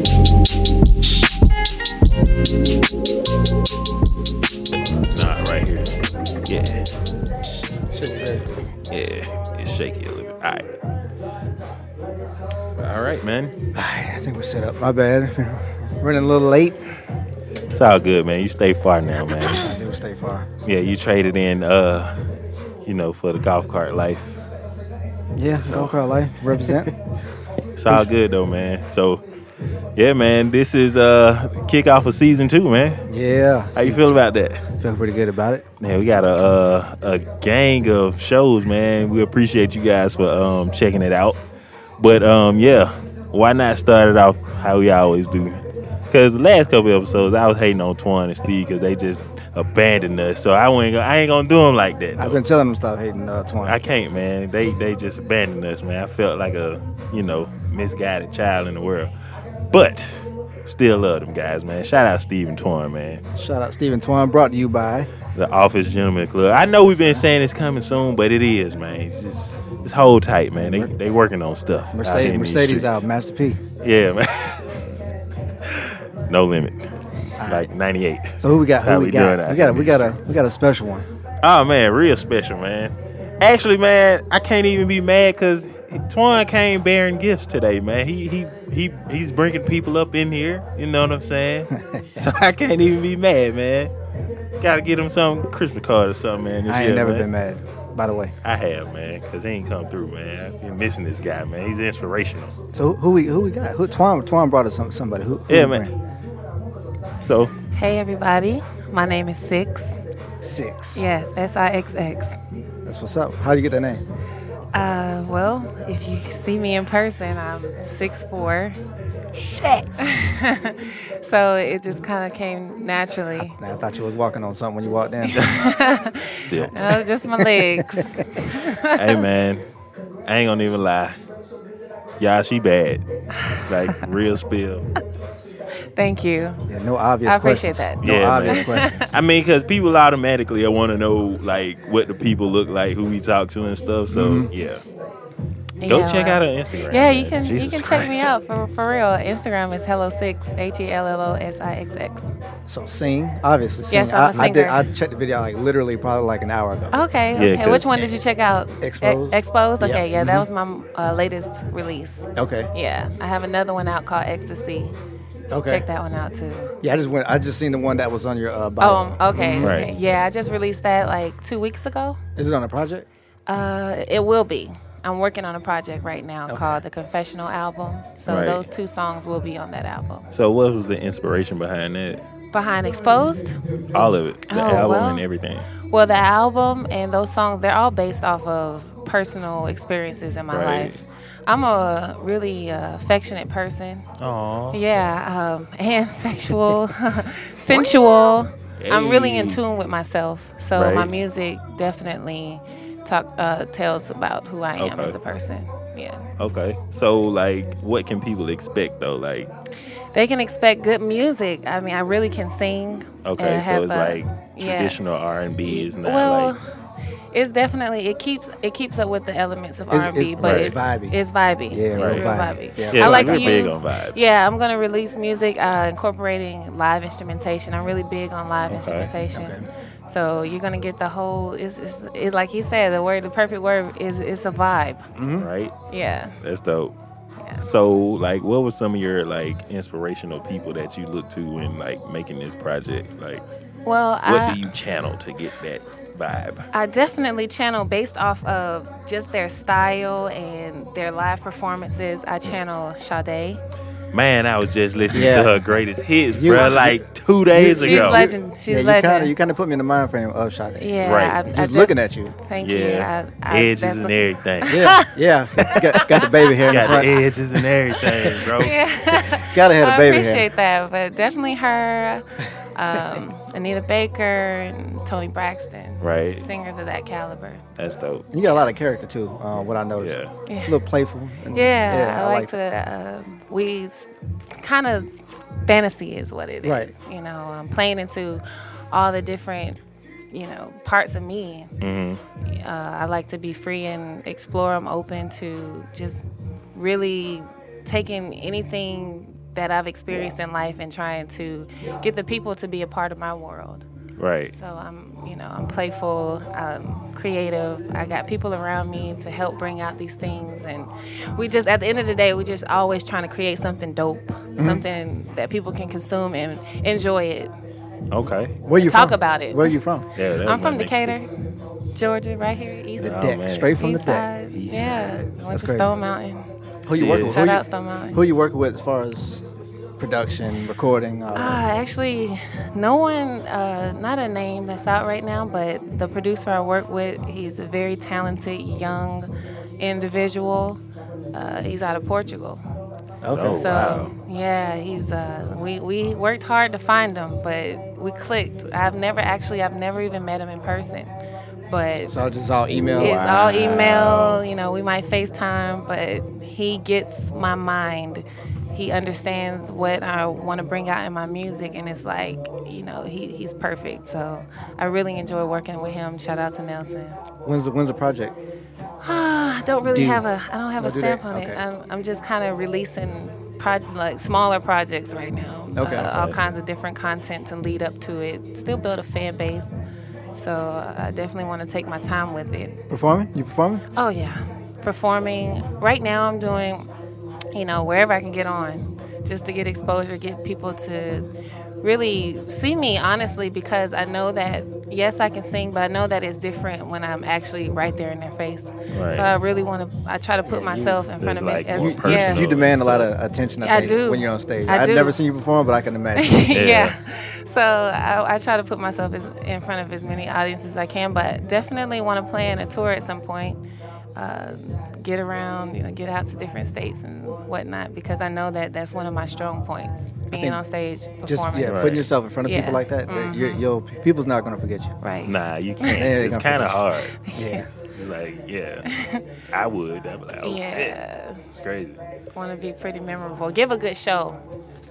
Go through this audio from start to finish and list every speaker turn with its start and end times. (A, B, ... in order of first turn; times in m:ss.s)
0:04.8-0:05.9 A
0:06.4-0:06.8 A
0:07.9-0:08.5 B
0:08.9-0:10.6 A
0:12.8-0:13.5 A
0:13.7-0:16.8 B
0:17.7-0:19.7 A
0:19.4-0:20.6 B
0:20.6-0:22.2 A
0:22.8-0:24.4 A
0:25.4-0:26.9 B
0:25.6-0:26.0 A
0:27.8-0:29.2 A
0:30.0-0:33.0 A
0:33.1-0:34.2 B
0:33.8-0:34.6 A
0:34.8-0:35.6 B
0:35.8-0:41.4 A
0:42.0-0:52.4 A
0:52.2-0:53.8 B
0:53.6-0:59.1 A
0:59.7-1:00.1 A
1:00.6-1:03.2 A
1:03.3-1:05.1 B
1:05.3-1:13.0 A
1:06.9-1:07.2 B
1:10.5-1:10.9 B
1:11.9-1:13.6 B
1:13.8-1:14.7 A
1:15.6-1:16.8 A
1:17.4-1:17.7 B
1:17.4-1:20.4 A
1:18.4-1:21.1 B
1:21.4-1:33.9 A
1:31.9-1:32.2 B
1:34.6-1:37.3 A
1:36.6-1:38.3 B
1:38.4-1:42.5 A
1:42.7-1:45.9 B
1:45.5-1:45.9 A
1:47.2-1:47.5 A
1:47.7-1:49.9 C
1:50.4-1:51.0 B
1:50.9-1:52.4 C
1:52.8-1:54.0 B
1:54.7-1:58.8 C
2:00.0-2:03.6 C
2:03.5-2:05.5 B
2:05.3-2:09.2 C
2:06.3-2:07.0 A
2:06.5-2:08.4 B
2:08.9-2:09.6 A
2:10.3-2:11.2 A
2:12.2-2:13.0 A
2:13.4-2:13.9 C
2:13.5-2:14.8 A
2:16.0-2:16.6 C
2:16.6-2:19.0 B
2:17.2-2:19.1 C
2:18.0-2:24.8 A
2:24.1-2:24.5 B
2:25.8-2:32.3 C
2:25.9-2:28.3 A
2:32.7-2:37.0 B
2:33.9-2:34.8 C
2:36.9-2:44.9 C
2:37.3-2:37.9 A
2:38.8-2:40.4 B
2:42.4-2:42.7 B
2:45.5-2:45.8 B
2:45.5-2:46.7 C
2:46.8-2:49.8 B
2:48.8-2:52.2 C
2:49.6-2:49.9 A
2:52.4-2:53.1 B
2:53.5-3:00.2 C
2:58.3-2:58.6 A
3:00.3-3:02.2 A
3:02.5-3:03.6 C
3:03.9-3:05.7 A
3:04.5-3:05.2 C
3:05.9-3:14.0 C
3:10.5-3:11.0 A
3:14.2-3:14.8 A
3:14.7-3:26.2 C
3:18.8-3:19.6 A
3:20.8-3:21.1 A
3:24.8-3:25.2 A
3:26.4-3:29.5 A
3:30.1-3:35.0 C
3:33.2-3:36.5 A
3:35.6-3:36.6 C
3:37.3-3:55.1 C
3:39.9-3:41.2 B
3:40.4-3:40.7 A
3:41.7-3:43.6 B
3:41.9-3:42.3 A
3:42.9-3:44.3 A
3:48.7-3:49.1 A
3:49.3-3:49.6 B
3:55.2-3:55.5 B
3:55.4-3:55.7 A
3:55.9-3:56.4 C
3:56.4-3:56.9 A
3:57.6-4:03.4 A
4:03.8-4:04.6 C
4:04.2-4:06.7 A
4:06.7-4:13.6 C
4:14.1-4:18.3 A
4:15.1-4:15.6 B
4:16.3-4:22.3 B
4:17.7-4:19.3 C
4:20.8-4:25.1 C
4:21.0-4:21.4 A
4:22.6-4:25.0 A
4:24.7-4:27.2 B
4:25.6-4:25.8 A
4:25.6-4:27.0 C
4:26.7-4:28.8 A
4:28.4-4:37.6 C
4:29.4-4:30.4 B
4:36.0-4:36.4 A
4:37.8-4:38.2 A
4:38.3-4:42.5 B
4:40.0-4:40.3 A
4:40.5-4:40.8 C
4:41.5-4:45.1 C
4:45.6-4:49.8 C
4:46.6-4:46.9 B
4:50.3-4:51.7 C
4:51.8-4:52.2 A
4:52.4-4:56.2 C
4:56.7-5:03.8 C
5:04.2-5:04.5 A
5:04.5-5:17.5 C
5:14.6-5:14.8 B
5:18.1-5:18.5 A
5:18.6-5:20.0 B
5:18.8-5:19.7 C
5:20.2-5:21.1 A
5:20.4-5:21.3 C
5:22.0-5:26.4 C
5:23.0-5:24.3 B
5:23.0-5:23.8 A
5:24.5-5:25.2 A
5:25.4-5:25.9 B
5:26.8-5:29.4 B
5:26.9-5:27.5 A
5:27.1-5:28.2 C
5:30.0-5:31.6 B
5:31.3-5:39.3 C
5:39.8-5:40.8 C
5:41.3-5:42.6 C
5:43.2-5:44.0 B
5:43.3-5:44.1 A
5:43.5-5:51.1 C
5:51.7-5:52.1 C
5:52.1-5:53.5 B
5:53.0-5:54.4 A
5:53.0-6:07.2 C
6:07.4-6:08.4 B
6:09.0-6:19.7 C
6:09.9-6:10.2 B
6:10.8-6:11.6 B
6:15.8-6:16.1 B
6:16.1-6:16.4 A
6:20.3-6:22.8 C
6:22.9-6:23.8 B
6:24.0-6:26.9 C
6:27.5-6:31.2 C
6:31.8-6:42.5 C
6:38.9-6:39.3 A
6:40.4-6:41.0 B
6:41.2-6:43.1 A
6:41.7-6:46.4 B
6:43.6-6:45.2 C
6:46.2-6:53.6 C
6:46.5-6:47.0 A
6:54.2-7:01.9 C
7:00.3-7:00.6 B
7:01.3-7:04.9 B
7:01.6-7:02.1 A
7:02.4-7:03.6 C
7:05.0-7:06.1 C
7:05.2-7:07.2 A
7:05.9-7:07.7 B
7:07.2-7:07.6 C
7:07.9-7:08.9 A
7:08.8-7:09.2 C
7:09.5-7:10.9 A
7:10.4-7:11.4 C
7:11.6-7:12.0 A
7:12.3-7:14.4 C